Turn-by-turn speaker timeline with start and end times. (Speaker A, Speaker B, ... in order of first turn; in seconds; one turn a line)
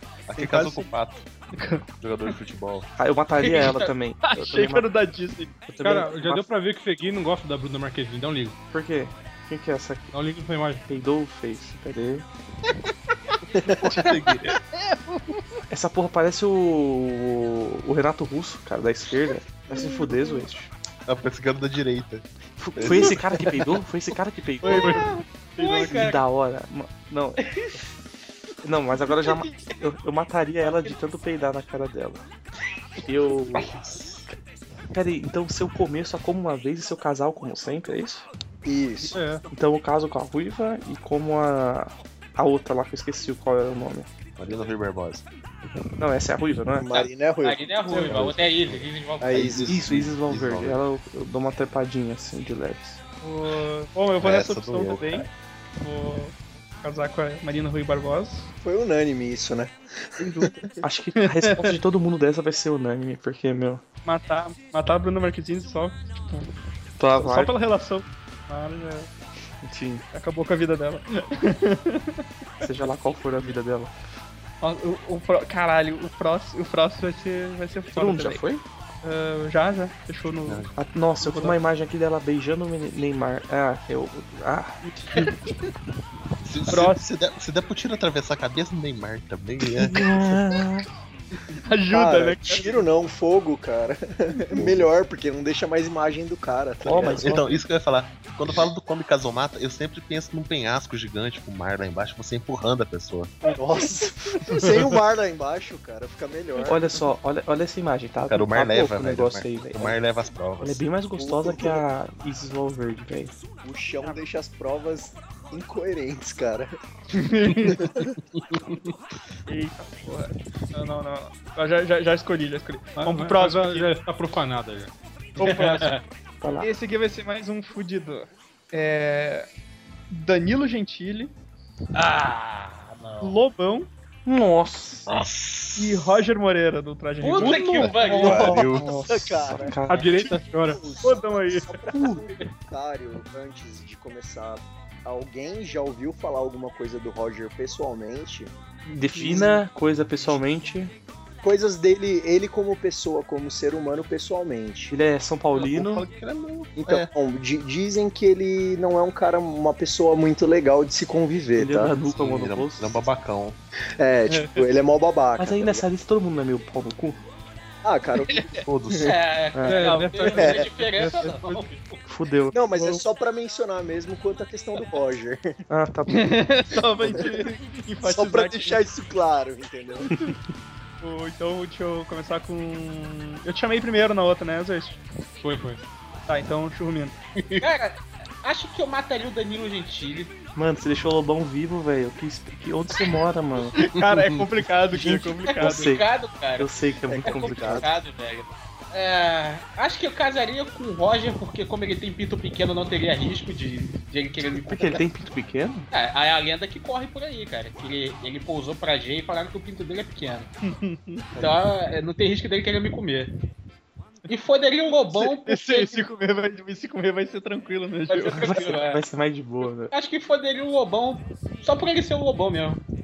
Speaker A: 0.3-1.2
Speaker B: 0.4-0.9
Speaker B: 1.6-2.4
Speaker A: 2.0-2.9
Speaker C: 3.0-4.9
Speaker B: 3.5-3.7
Speaker D: 3.5-3.9
Speaker B: 4.3-5.6
Speaker C: 5.7-6.5
Speaker E: 5.8-8.6
Speaker C: 8.7-10.1
Speaker E: 10.1-10.8
Speaker C: 10.9-12.3
Speaker F: 13.6-14.0
Speaker A: 13.6-14.6
Speaker B: 14.8-15.4
Speaker C: 15.7-20.7
Speaker B: 19.8-20.4
Speaker A: 21.1-22.2
Speaker C: 22.6-25.0
Speaker A: 22.8-23.7
Speaker B: 24.7-25.2
Speaker E: 24.7-25.1
Speaker D: 25.6-26.2
Speaker C: 25.6-27.4
Speaker D: 27.4-27.7
Speaker C: 28.6-32.2
Speaker C: 33.0-33.7
Speaker A: 33.6-34.2
Speaker C: 34.9-38.3
Speaker F: 38.6-39.2
Speaker E: 39.0-39.5
Speaker C: 39.5-44.1
Speaker A: 44.4-45.2
Speaker C: 46.0-46.9
Speaker F: 46.8-48.3
Speaker D: 46.9-49.6
Speaker B: 47.9-48.2
Speaker A: 48.1-50.9
Speaker F: 49.2-49.8
Speaker C: 49.7-53.0
Speaker B: 53.2-58.5
Speaker A: 54.2-55.3
Speaker F: 58.6-60.7
Speaker B: 60.2-60.5
Speaker C: 60.8-63.8
Speaker B: 61.2-61.8
Speaker B: 64.0-66.5
Speaker C: 67.0-67.5
Speaker B: 67.2-69.1
Speaker C: 69.6-70.0
Speaker B: 70.1-72.2
Speaker C: 72.6-73.9
Speaker B: 74.6-78.4
Speaker C: 77.9-78.6
Speaker B: 79.0-81.6
Speaker A: 80.5-80.7
Speaker C: 80.8-84.8
Speaker B: 84.8-85.3
Speaker A: 86.4-90.6
Speaker B: 86.7-87.0
Speaker C: 89.8-90.9
Speaker B: 91.5-92.8
Speaker F: 91.9-97.3
Speaker A: 94.6-94.9
Speaker C: 96.8-97.6
Speaker A: 96.9-103.3
Speaker F: 103.5-106.8
Speaker C: 106.7-110.0
Speaker A: 108.3-110.8
Speaker C: 110.6-113.4
Speaker F: 111.2-111.8
Speaker F: 113.6-116.8
Speaker B: 117.1-117.9
Speaker F: 117.8-118.1
Speaker A: 118.4-118.8
Speaker B: 119.5-123.9
Speaker E: 123.0-124.9
Speaker B: 125.4-126.0
Speaker D: 125.4-126.0
Speaker C: 126.4-126.7
Speaker B: 126.6-129.5
Speaker B: 130.1-131.3
Speaker D: 131.9-133.4
Speaker B: 133.2-133.9
Speaker C: 134.3-135.1
Speaker A: 135.1-136.2
Speaker B: 135.8-138.6
Speaker D: 137.2-138.6
Speaker C: 137.4-140.1
Speaker A: 137.4-138.9
Speaker F: 138.2-148.5
Speaker E: 139.9-140.8
Speaker B: 141.0-141.8
Speaker C: 141.9-142.2
Speaker C: 148.9-150.9
Speaker F: 149.2-149.5
Speaker F: 151.4-154.9
Speaker C: 154.9-156.1
Speaker A: 155.6-157.1
Speaker F: 156.8-161.9
Speaker C: 161.6-163.0
Speaker A: 162.0-163.6
Speaker F: 164.0-165.8
Speaker B: 164.3-164.6
Speaker C: 165.4-167.2
Speaker F: 167.8-169.1
Speaker B: 168.3-168.6
Speaker A: 168.7-169.2
Speaker D: 169.0-172.0
Speaker C: 169.5-169.8
Speaker E: 169.7-171.6
Speaker B: 169.8-171.3
Speaker F: 170.3-170.7
Speaker C: 172.1-172.9
Speaker F: 172.5-175.6
Speaker C: 175.7-176.3
Speaker B: 176.1-178.8
Speaker F: 177.0-180.1
Speaker B: 180.1-180.3
Speaker B: 181.0-185.0
Speaker E: 185.4-185.8
Speaker B: 186.3-187.2
Speaker D: 187.6-190.4
Speaker C: 190.6-193.8
Speaker B: 193.8-195.9
Speaker A: 194.0-194.5
Speaker C: 194.9-197.9
Speaker D: 195.5-196.7
Speaker F: 197.1-197.9
Speaker D: 197.2-205.0
Speaker C: 204.6-205.9
Speaker D: 205.9-210.5
Speaker B: 210.7-211.3
Speaker D: 211.4-213.3
Speaker D: 214.3-216.0
Speaker B: 215.1-218.8
Speaker D: 218.1-219.0
Speaker C: 218.3-219.9
Speaker D: 219.9-222.8